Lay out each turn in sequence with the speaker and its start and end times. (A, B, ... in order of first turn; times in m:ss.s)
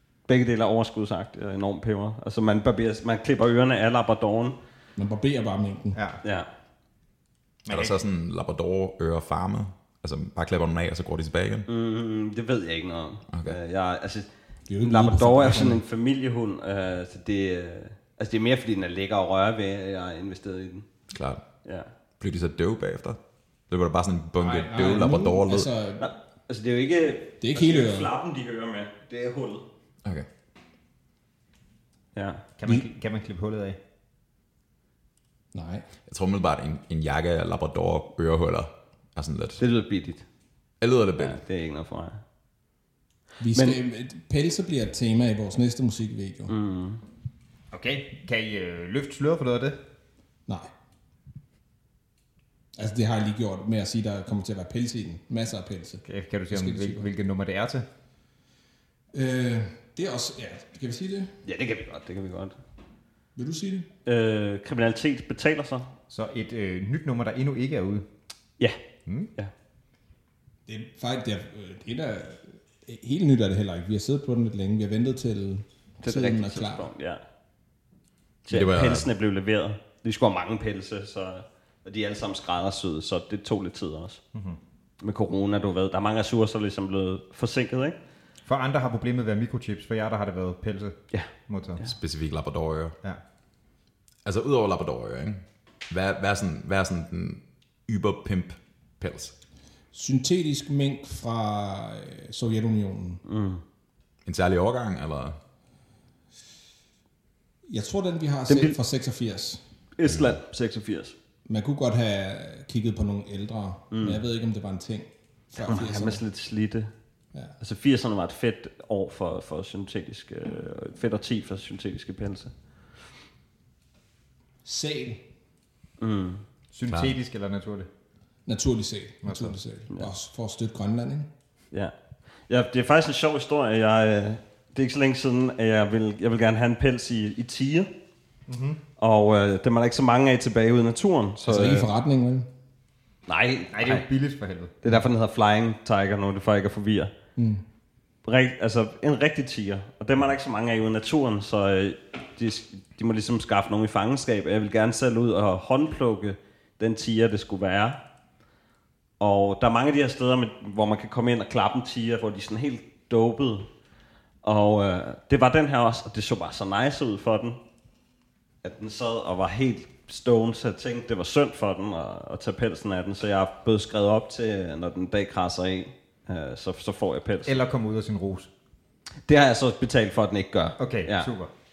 0:00.3-0:04.6 A
0:05.0-0:06.0 B
0:05.9-0:06.2 C
0:07.6-0:08.0 C
0:07.7-0:11.7 D
0:11.7-0:14.3 A
0:13.3-0:13.6 D
0:14.7-0:15.8 B
0:14.8-0:20.9 A
0:21.1-0:21.4 D
0:22.2-0:25.7 D
0:24.4-0:26.1 B
0:26.0-0:29.6 A
0:27.4-0:28.1 B
0:32.1-0:32.4 A
0:32.6-0:33.8 C
0:35.5-0:35.9 B
0:36.1-0:39.6 D
0:39.6-0:40.2 A
0:40.8-0:41.4 D
0:41.2-0:42.2 A
0:43.4-0:46.5 B
0:46.5-0:47.0 A
0:47.7-0:49.8 C
0:52.8-0:57.1 B
0:56.0-0:57.9 C
0:59.1-1:01.3 B
1:01.4-1:02.6 A
1:03.4-1:03.9 B
1:04.0-1:05.9 A
1:06.1-1:08.0 C
1:09.0-1:09.3 C
1:10.7-1:16.9 B
1:16.0-1:17.2 A
1:18.4-1:24.2 A
1:18.5-1:19.1 D
1:25.0-1:28.0 A
1:28.4-1:31.8 C
1:31.8-1:33.0 D
1:34.2-1:39.3 D
1:39.9-1:43.2 B
1:43.2-1:43.6 A
1:44.2-1:45.4 D
1:47.7-1:49.6 B
1:48.5-1:48.8 A
1:50.0-1:51.1 A
1:50.1-1:50.4 D
1:51.5-1:56.2 B
1:53.9-1:54.2 A
1:55.6-1:56.9 A
1:57.6-2:02.5 A
2:04.6-2:05.2 B
2:06.0-2:06.4 A
2:06.7-2:07.9 C
2:08.4-2:11.3 B
2:09.2-2:09.6 C
2:12.5-2:17.9 A
2:18.5-2:18.8 C
2:19.0-2:21.9 A
2:21.4-2:22.5 B
2:23.3-2:24.0 A
2:23.7-2:24.7 C
2:24.8-2:27.1 A
2:27.4-2:27.6 B
2:28.2-2:38.0 A
2:39.2-2:43.7 A
2:44.4-2:47.6 A
2:48.6-2:57.6 A
2:57.4-2:58.5 C
2:59.2-3:01.3 A
3:00.8-3:01.5 C